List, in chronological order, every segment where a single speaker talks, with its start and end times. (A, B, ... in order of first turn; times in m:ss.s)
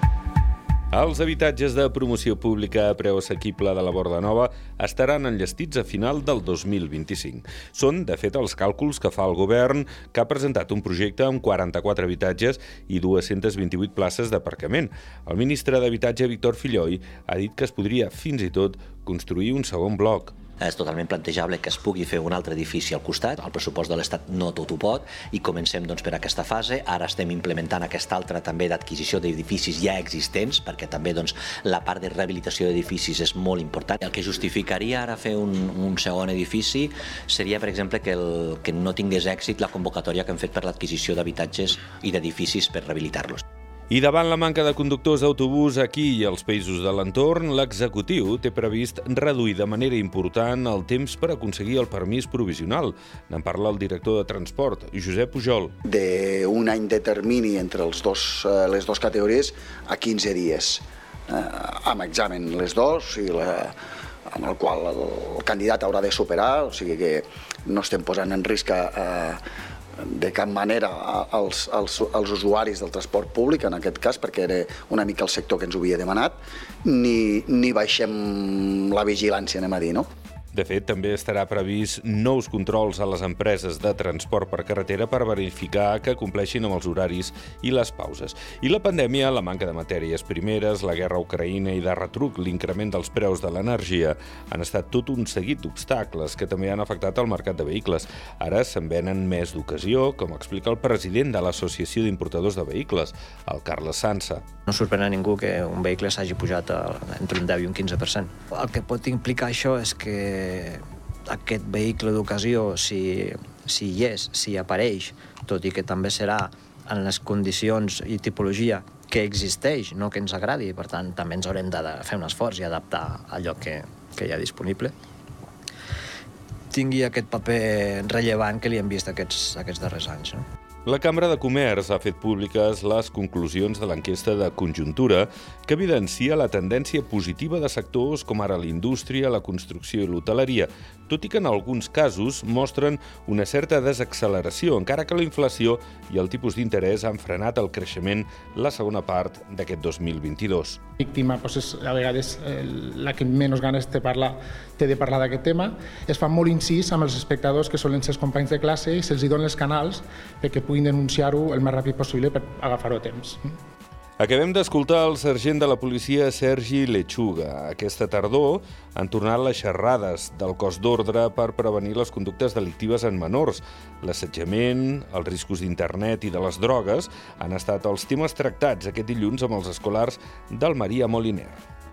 0:00.9-0:20.4 A
0:20.6-0:43.4 B
0:43.9-0:55.7 A
0:55.8-1:03.7 C
1:04.3-1:09.4 C
1:10.0-1:20.1 C
1:20.5-1:44.4 A
1:44.7-2:04.9 D
2:06.7-2:10.4 D
2:10.9-2:30.8 A
2:31.0-2:43.4 E
2:44.2-3:01.6 A